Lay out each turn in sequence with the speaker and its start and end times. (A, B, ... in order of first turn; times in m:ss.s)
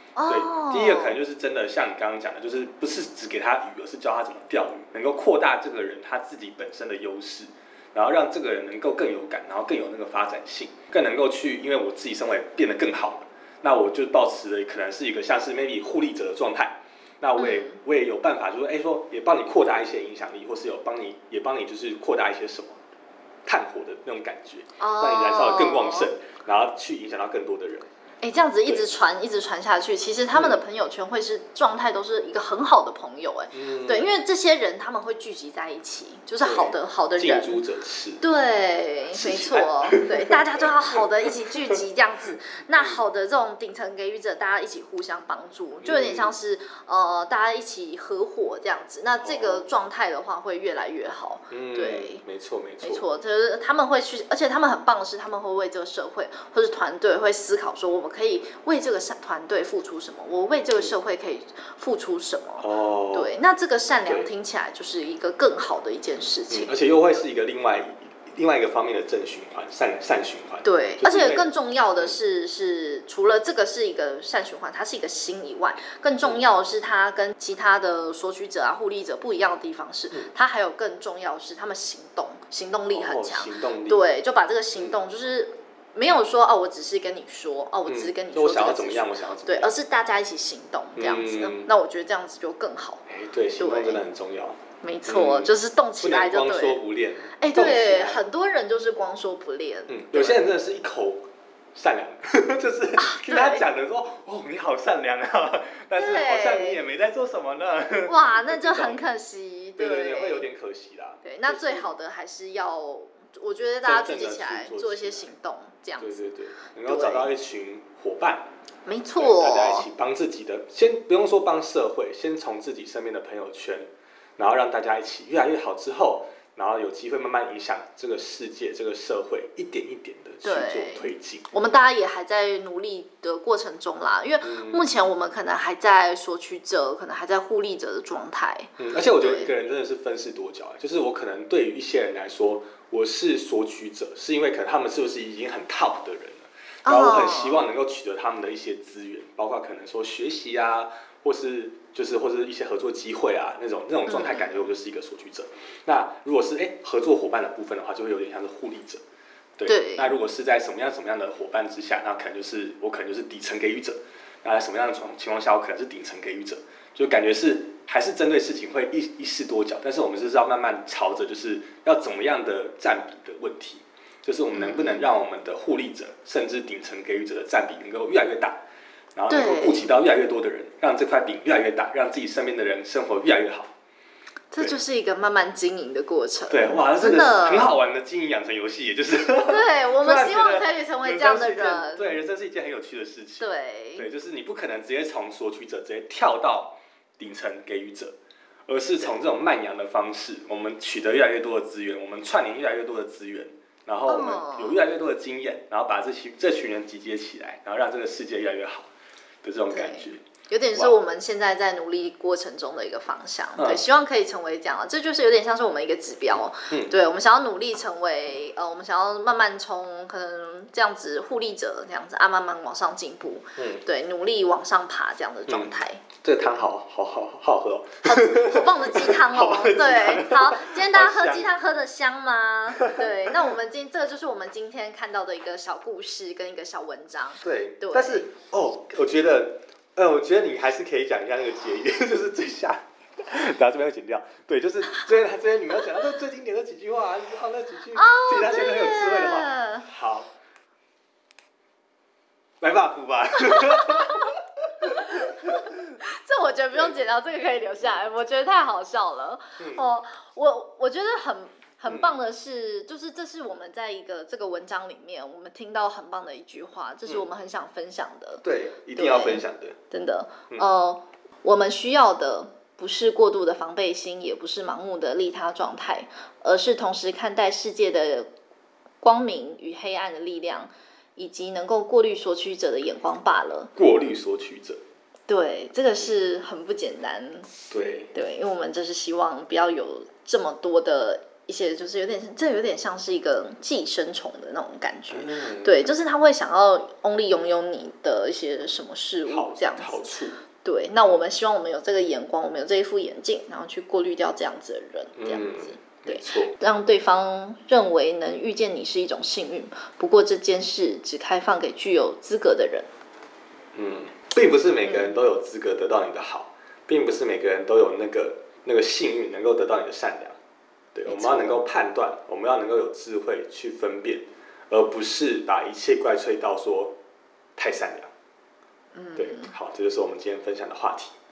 0:00.2-0:01.2 A
0:00.3-0:22.8 B
0:17.4-0:17.8 A
0:23.4-0:27.9 B
0:24.8-0:26.1 A
0:28.2-0:37.6 A
0:30.3-0:30.6 B
0:33.5-0:34.1 B
0:36.4-0:38.2 B
0:38.2-0:52.2 A
0:39.1-0:41.8 B
0:42.7-0:43.0 B
0:45.8-0:46.3 B
0:49.2-0:49.7 B
0:51.5-0:53.0 B
0:52.8-1:06.7 A
1:02.6-1:03.3 B
1:06.5-1:11.5 B
1:10.6-1:33.1 A
1:22.9-1:24.0 B
1:27.9-1:29.8 B
1:31.0-1:31.7 B
1:33.1-1:38.2 B
1:33.6-1:34.0 A
1:34.8-1:36.8 A
1:37.4-1:40.4 A
1:39.9-1:49.0 B
1:43.0-1:43.6 A
1:46.0-1:46.8 A
1:48.1-1:50.5 A
1:49.8-1:51.9 B
1:51.2-1:56.2 A
1:53.8-1:55.3 B
1:56.0-1:58.5 B
1:56.8-1:57.3 A
1:58.9-1:59.9 A
1:59.2-2:11.5 B
2:10.4-2:19.5 A
2:14.4-2:14.8 B
2:18.8-2:39.0 B
2:26.8-2:27.6 A
2:34.1-2:34.5 A
2:39.6-2:58.6 B
2:39.7-2:40.2 A
2:54.5-2:55.1 A
2:59.2-3:03.7 B
2:59.3-2:59.9 A
3:04.5-3:07.8 A
3:06.5-3:18.2 B
3:09.4-3:12.2 A
3:13.4-3:14.1 A
3:18.7-3:28.9 B
3:24.1-3:24.8 A
3:29.4-3:31.0 B
3:29.7-3:46.1 A
3:33.6-3:33.8 B
3:36.7-3:37.0 B
3:43.6-3:43.8 B
3:45.5-3:51.5 B
3:48.0-3:58.2 A
3:52.7-3:53.5 B
3:57.4-4:10.3 B
4:08.0-4:09.9 A
4:12.6-4:15.8 B
4:13.4-4:28.4 A
4:16.7-4:17.0 B
4:19.6-4:19.8 B
4:21.9-4:22.1 B
4:28.4-4:29.8 B
4:29.0-4:38.3 A
4:39.0-4:43.7 A
4:43.8-4:44.8 B
4:45.3-4:47.5 A
4:47.7-4:48.1 B
4:48.1-5:12.9 A
4:55.1-4:55.8 B
4:59.3-5:00.4 B
5:05.2-5:06.5 B
5:13.8-5:20.4 B
5:14.8-5:15.1 A
5:21.0-5:27.0 B
5:21.1-5:21.6 A
5:27.6-5:28.1 B
5:28.9-5:29.5 A
5:29.2-5:31.1 B